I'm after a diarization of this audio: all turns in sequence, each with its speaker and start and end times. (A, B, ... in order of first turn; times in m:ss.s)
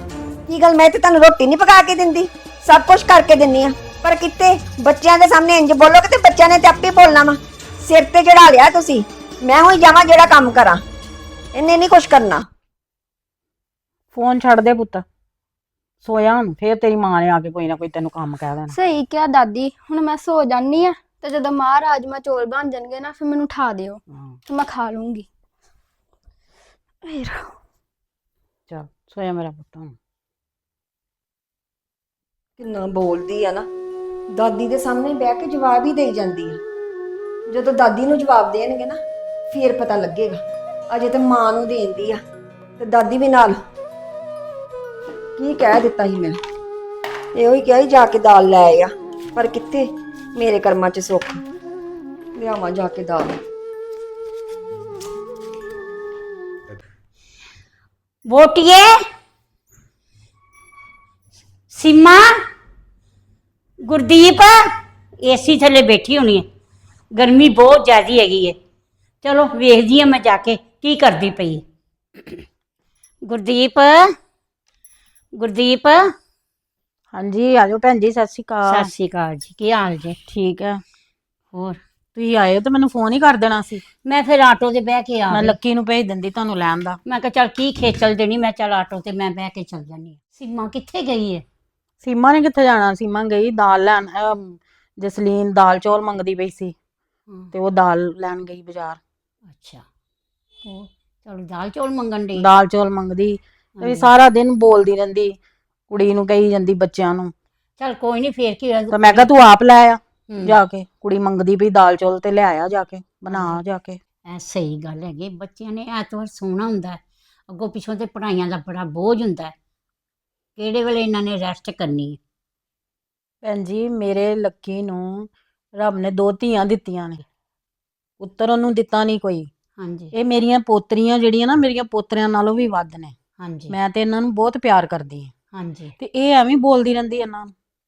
0:00.5-0:10.8 A
0:11.5-0:12.5 A
0:14.1-0:15.0 B
0:16.0-0:18.7 B
0:18.7-0:25.3 C
0:24.1-0:24.4 B
0:27.0-0:27.5 C
0:28.7-0:30.0 B
0:32.6-0:33.7 A
0:34.3-0:36.6 A
0:37.5-0:42.2 A
0:42.8-0:43.6 A
0:45.4-0:46.4 A
0:47.4-0:51.4 A
0:52.3-0:53.4 A
0:58.2-0:59.0 D
1:01.7-1:02.3 D
1:03.8-1:04.7 D
1:05.2-1:06.5 D
1:07.1-1:08.6 D
1:09.2-1:11.6 D
1:13.2-1:14.1 D
1:15.4-1:16.1 D
1:17.1-1:18.9 B
1:18.6-1:20.2 D
1:20.2-1:20.8 B
1:21.5-1:21.8 D
1:22.1-1:23.8 B
1:24.0-1:25.6 D
1:25.3-1:27.0 B
1:27.0-1:31.4 D
1:32.0-1:36.7 B
1:37.5-1:39.0 B
1:39.5-1:39.8 D
1:40.6-1:42.4 D
1:42.3-1:45.4 B
1:43.8-1:44.1 D
1:45.9-1:47.3 B
1:47.8-1:49.3 D
1:48.9-1:54.0 B
1:50.3-1:50.6 D
1:53.3-1:53.6 D
1:54.2-1:59.5 D
2:00.6-2:02.2 D
2:03.4-2:07.2 B
2:08.2-2:09.5 B
2:09.8-2:10.1 D
2:10.1-2:13.2 B
2:13.4-2:13.8 D
2:13.7-2:15.3 B
2:15.5-2:15.9 D
2:16.0-2:17.5 B